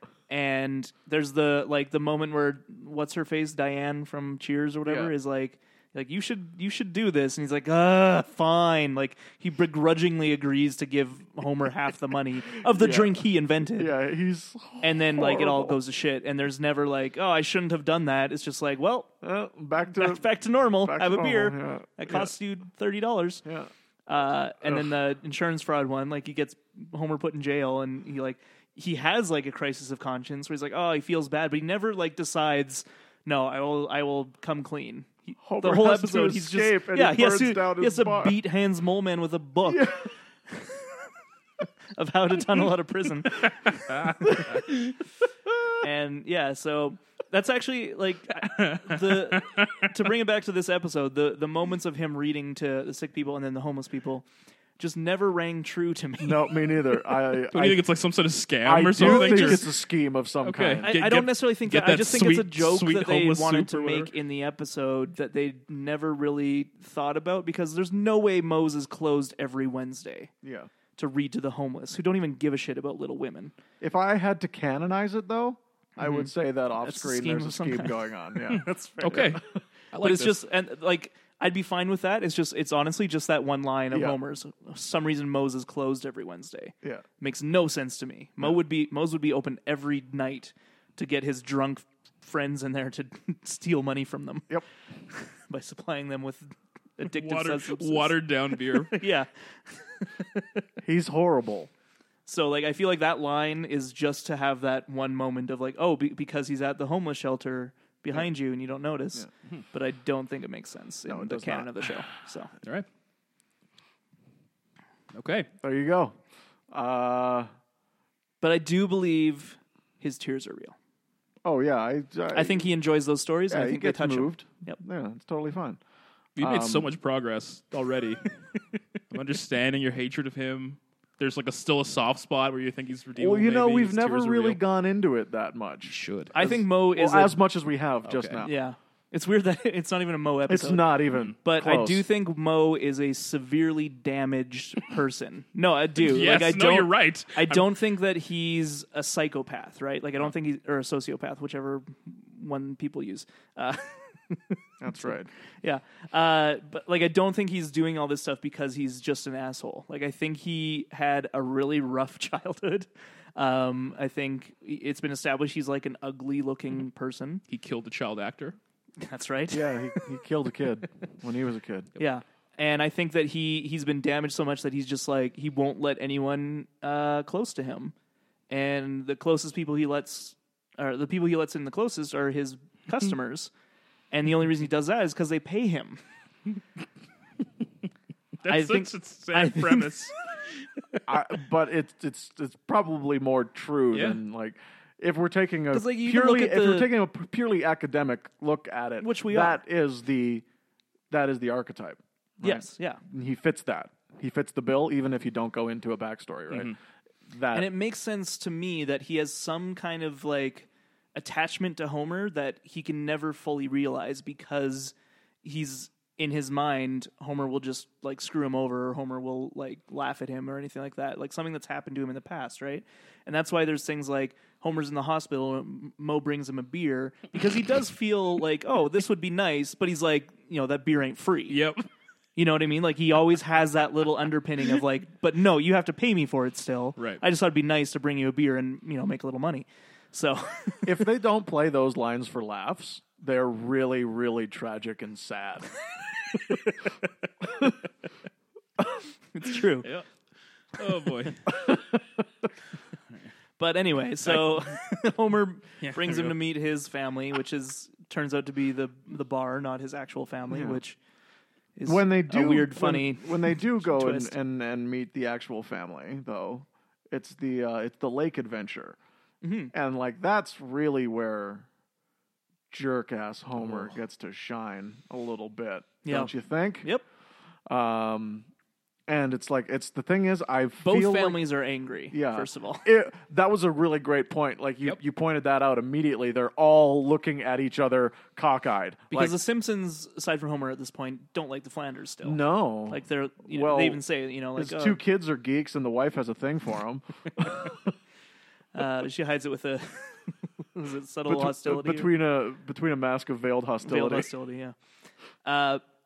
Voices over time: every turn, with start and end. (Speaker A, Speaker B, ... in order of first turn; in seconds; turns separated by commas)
Speaker A: 0.3-13.9, Speaker B: 4.8-5.1, Speaker B: 12.6-13.2, Speaker B: 13.7-15.8, Speaker A: 14.8-19.1, Speaker B: 19.2-22.3, Speaker A: 20.0-23.4, Speaker B: 23.4-23.7, Speaker A: 24.1-41.0, Speaker B: 24.6-24.9, Speaker B: 35.4-38.4, Speaker B: 39.6-40.1, Speaker A: 41.9-44.7, Speaker C: 43.6-45.0, Speaker B: 44.3-44.5, Speaker A: 45.8-54.3, Speaker C: 48.4-49.9, Speaker A: 54.8-56.7, Speaker B: 56.2-57.8, Speaker C: 57.4-59.7, Speaker B: 58.6-60.9, Speaker A: 59.0-59.6, Speaker C: 60.4-64.1, Speaker A: 60.8-70.3, Speaker B: 70.4-70.7, Speaker A: 71.0-73.5, Speaker B: 73.8-78.7, Speaker A: 76.0-79.4, Speaker C: 79.0-80.4, Speaker A: 80.0-94.5, Speaker B: 83.9-84.2, Speaker A: 95.1-100.6, Speaker C: 97.1-99.0, Speaker B: 100.8-101.7, Speaker A: 102.2-112.5, Speaker B: 111.1-111.9, Speaker C: 115.1-115.5, Speaker B: 115.6-116.2, Speaker B: 116.7-117.5, Speaker A: 118.4-120.8, Speaker B: 121.4-122.7, Speaker A: 122.3-124.8, Speaker B: 123.5-125.8, Speaker C: 126.4-128.3, Speaker B: 126.4-126.9, Speaker C: 129.1-134.6, Speaker B: 133.2-138.5, Speaker C: 135.8-136.3, Speaker A: 136.3-137.3, Speaker C: 138.0-138.4, Speaker A: 138.4-167.4, Speaker B: 140.5-142.0, Speaker C: 146.0-147.7, Speaker B: 154.8-155.3, Speaker C: 167.5-168.6, Speaker A: 169.0-170.1, Speaker B: 169.5-171.9, Speaker A: 172.0-177.9, Speaker A: 178.5-183.5, Speaker A: 184.1-186.0, Speaker C: 188.4-190.6, Speaker A: 188.5-190.0, Speaker B: 191.1-200.4, Speaker C: 193.9-194.2, Speaker A: 195.7-196.9, Speaker A: 199.0-199.6, Speaker B: 201.1-206.7, Speaker A: 202.4-203.0, Speaker B: 207.3-207.7, Speaker A: 207.5-231.6, Speaker C: 231.5-231.9, Speaker A: 232.3-241.0, Speaker B: 240.8-245.8, Speaker B: 247.4-247.7, Speaker A: 249.3-249.9, Speaker C: 250.7-251.5, Speaker B: 251.5-252.2, Speaker A: 253.6-261.0, Speaker C: 254.2-254.7, Speaker C: 255.8-256.4, Speaker B: 260.5-260.8, Speaker A: 261.8-264.3, Speaker B: 261.9-269.0, Speaker A: 269.4-269.7, Speaker B: 269.7-271.7, Speaker B: 272.7-276.9, Speaker A: 276.0-276.3, Speaker B: 277.7-278.5, Speaker B: 279.1-281.4, Speaker A: 280.8-282.9, Speaker B: 282.1-289.4, Speaker A: 289.1-295.0, Speaker B: 292.2-294.0, Speaker B: 294.6-297.9, Speaker A: 298.7-302.1, Speaker B: 301.3-304.3, Speaker A: 303.8-304.7, Speaker A: 305.4-305.8